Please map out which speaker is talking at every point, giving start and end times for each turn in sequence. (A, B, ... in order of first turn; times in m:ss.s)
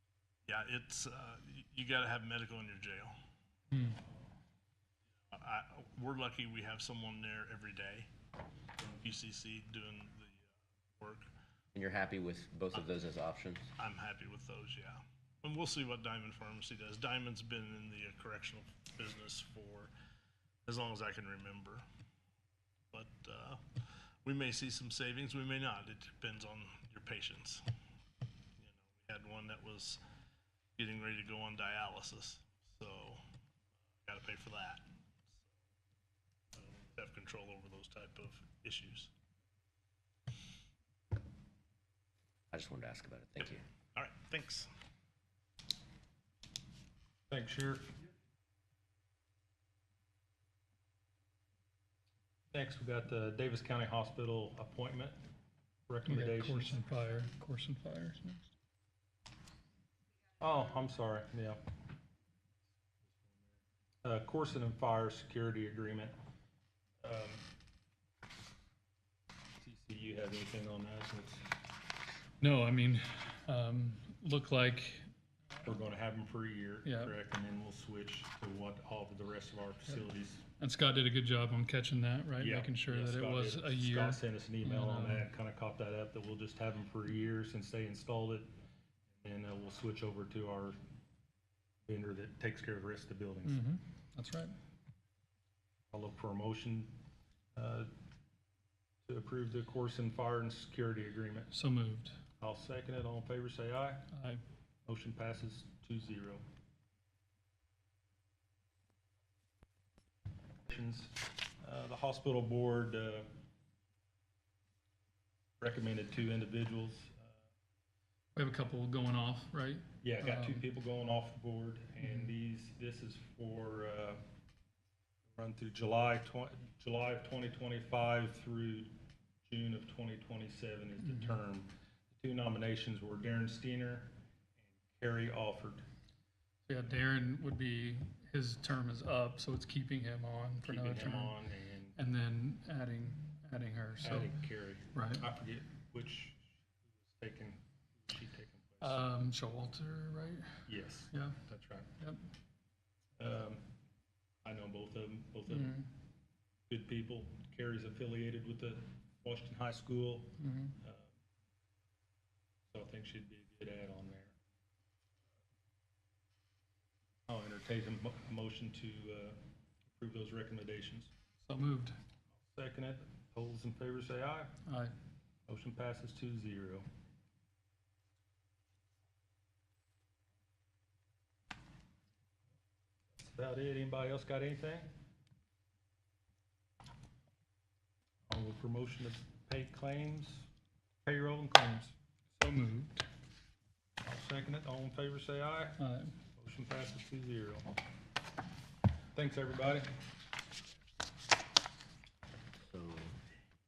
0:00.5-0:03.2 A
0:03.7-0:04.0 B
0:05.3-0:08.1 A
0:08.9-0:10.4 A
0:11.0-0:11.3 A
0:11.7-0:13.7 C
0:13.8-0:19.9 A
0:20.7-0:21.8 A
0:22.9-0:23.6 A
0:24.2-0:27.6 A
0:28.6-0:30.0 A
0:30.8-0:33.2 A
0:34.1-0:34.9 A
0:36.9-0:39.1 A
0:42.5-0:43.6 C
0:44.0-0:44.7 A
0:47.3-0:47.9 D
0:52.5-0:55.2 D
0:55.9-0:56.8 D
0:56.0-0:58.5 B
1:00.4-1:01.6 D
1:04.0-1:06.2 D
1:07.0-1:07.4 D
1:09.6-1:11.5 D
1:12.4-1:15.1 B
1:15.6-1:20.4 D
1:16.8-1:17.2 B
1:20.6-1:25.3 B
1:22.4-1:28.5 D
1:29.2-1:30.8 D
1:31.9-1:33.6 D
1:33.4-1:34.6 B
1:35.9-1:36.9 D
1:37.6-1:37.9 D
1:39.1-1:41.5 D
1:41.5-1:42.2 B
1:42.4-1:44.1 D
1:44.1-1:44.4 B
1:44.9-1:46.4 D
1:50.7-1:53.3 D
1:55.6-1:57.3 D
1:58.4-2:00.6 B
2:00.0-2:04.2 D
2:02.0-2:02.4 B
2:05.3-2:08.9 D
2:09.5-2:14.1 D
2:11.0-2:11.4 B
2:14.7-2:15.8 D
2:16.7-2:21.4 B
2:20.6-2:22.0 D
2:22.0-2:24.4 B
2:24.0-2:26.4 D
2:24.9-2:25.3 B
2:27.0-2:29.0 D
2:28.8-2:30.5 B
2:30.7-2:31.9 D
2:31.1-2:31.4 B
2:33.2-2:33.6 D
2:34.4-2:35.9 D
2:35.5-2:35.9 B
2:36.7-2:41.1 D
2:40.4-2:40.8 B
2:42.7-2:44.4 D
2:47.3-2:49.4 D
2:49.9-2:51.1 D
2:51.4-2:52.0 B
2:52.5-2:54.5 D
2:54.7-2:55.0 B
2:55.5-2:56.8 D
3:03.2-3:04.9 D
3:08.3-3:10.5 D
3:11.0-3:12.0 D
3:12.4-3:13.1 B
3:14.0-3:15.8 D
3:15.8-3:16.2 B
3:16.3-3:17.7 D
3:19.1-3:19.9 D
3:22.6-3:23.2 C